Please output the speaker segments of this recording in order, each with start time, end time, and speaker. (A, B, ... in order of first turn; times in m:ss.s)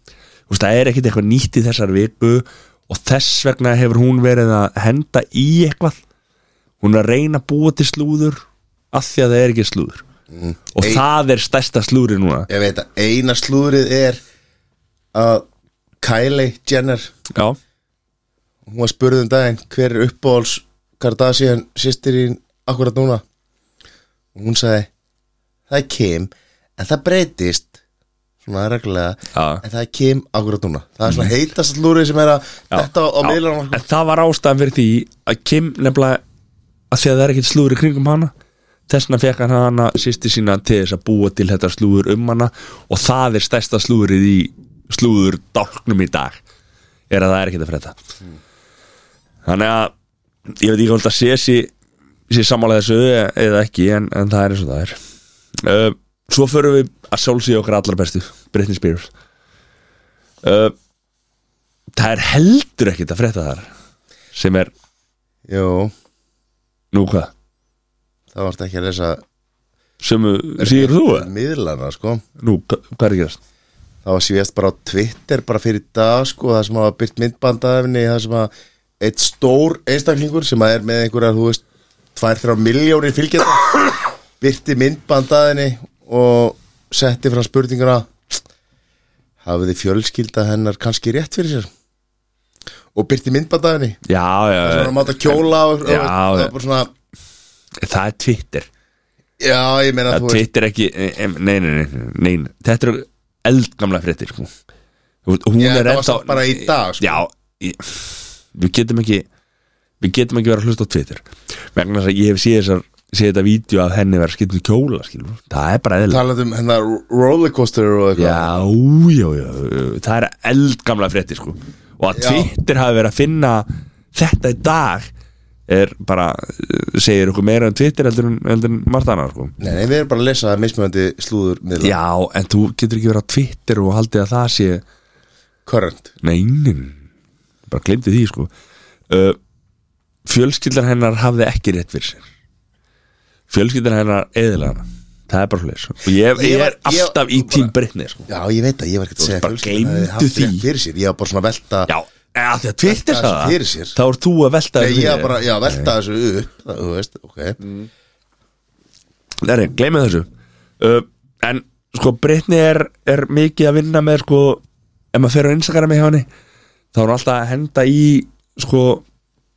0:00.5-0:06.0 A
0:06.8-0:10.0 A
0:10.3-0:11.0 B
0:10.7-0:12.5 A
0:12.5-0:14.2 B
0:15.1-0:15.5 B
0:16.0-0:17.1 B
0:18.7-0:23.2 B
0:24.4-0:24.9 B
0:25.7-0:27.7 B
0:28.4-0:33.8 B
0:29.3-0:29.6 A
0:32.7-0:36.2 A
0:36.9-0:38.3 A
0:38.9-0:46.4 A
0:47.1-0:48.0 A
0:49.4-0:49.9 A
0:50.6-0:51.7 A
0:52.3-0:55.0 A
0:55.6-0:59.1 A
1:00.4-1:00.7 A
1:01.9-1:03.7 A
1:04.3-1:04.7 A
1:05.5-1:05.9 B
1:06.9-1:07.3 A
1:08.3-1:09.2 B
1:10.0-1:11.3 A
1:10.6-1:12.2 B
1:12.4-1:13.4 A
1:14.0-1:21.6 B
1:22.1-1:28.1 B
1:29.4-1:31.7 B
1:32.9-1:34.0 B
1:34.0-1:36.5 A
1:34.6-1:36.9 B
1:37.8-1:38.7 A
1:39.4-1:40.4 B
1:40.1-1:44.5 A
1:45.2-1:49.2 A
1:45.6-1:47.2 B
1:50.0-1:56.2 A
1:56.1-1:58.6 B
1:58.2-2:05.1 A
2:02.1-2:02.5 B
2:05.7-2:09.5 A
2:09.6-2:12.0 B
2:11.8-2:14.8 A
2:15.6-2:16.1 B
2:16.2-2:17.0 A
2:17.7-2:18.5 A
2:19.1-2:19.4 A
2:20.2-2:22.2 A
2:23.5-2:28.3 A
2:26.3-2:27.7 B
2:28.3-2:31.9 B
2:29.2-2:30.6 A
2:31.9-2:35.9 A
2:32.8-2:34.0 B
2:34.8-2:37.6 B
2:37.6-2:37.9 A
2:39.4-2:40.3 A
2:40.8-2:44.6 A
2:45.1-2:46.3 A
2:46.9-2:49.0 A